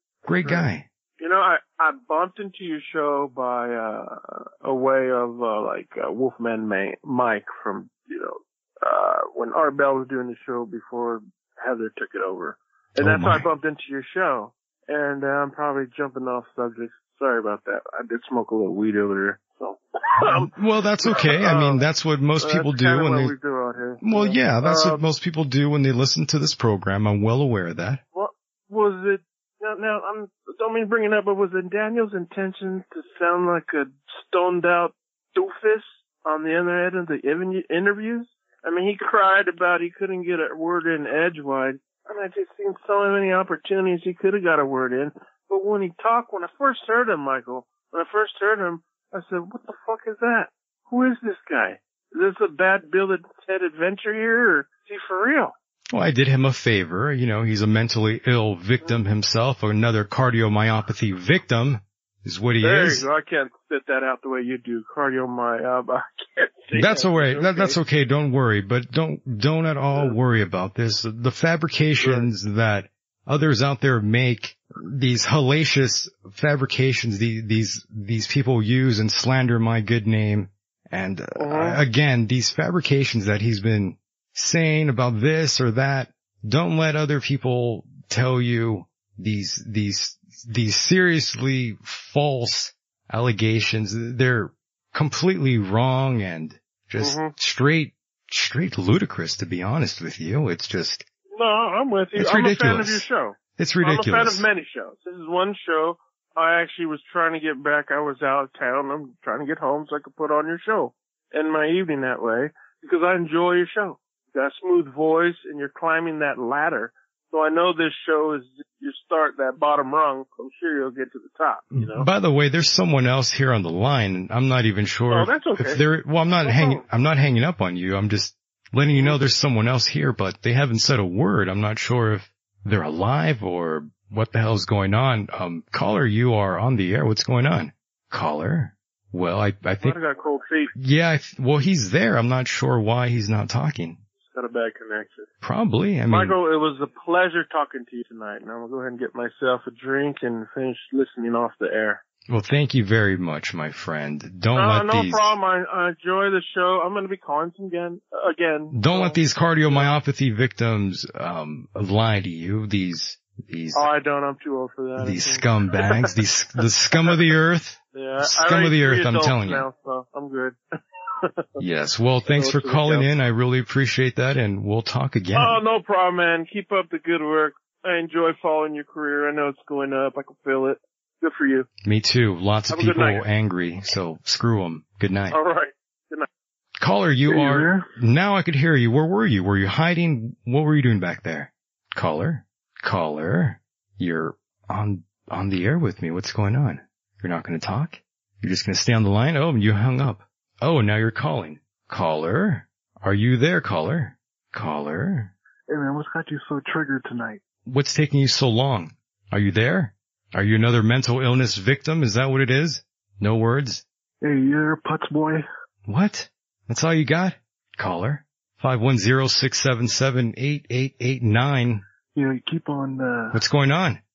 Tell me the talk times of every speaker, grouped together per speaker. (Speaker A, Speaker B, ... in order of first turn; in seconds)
Speaker A: 0.2-0.8, 12.9-13.5, 20.2-23.3, 24.0-28.0, 55.9-63.1, 66.7-101.0, 102.2-104.5, 121.7-140.0, 140.7-144.0, 145.4-146.4, 152.3-155.3, 158.7-163.9, 165.0-169.7, 171.6-175.6, 181.8-185.4, 186.8-205.3, 207.7-213.8, 215.8-221.8, 223.3-224.0
Speaker B: 0.4-20.5, 21.0-21.8, 22.4-25.0, 28.1-55.5, 62.6-67.8, 72.0-72.3, 81.4-81.8, 97.0-97.3, 101.3-122.1, 125.1-125.8, 126.4-126.8, 128.9-129.2, 139.8-140.7, 144.2-145.3, 146.1-152.0, 154.5-160.0, 163.7-166.1, 167.9-170.6, 172.2-173.1, 175.3-181.7, 182.7-183.2, 185.3-186.3
Speaker C: 187.3-187.8, 205.7-207.4, 214.2-215.4, 222.1-223.4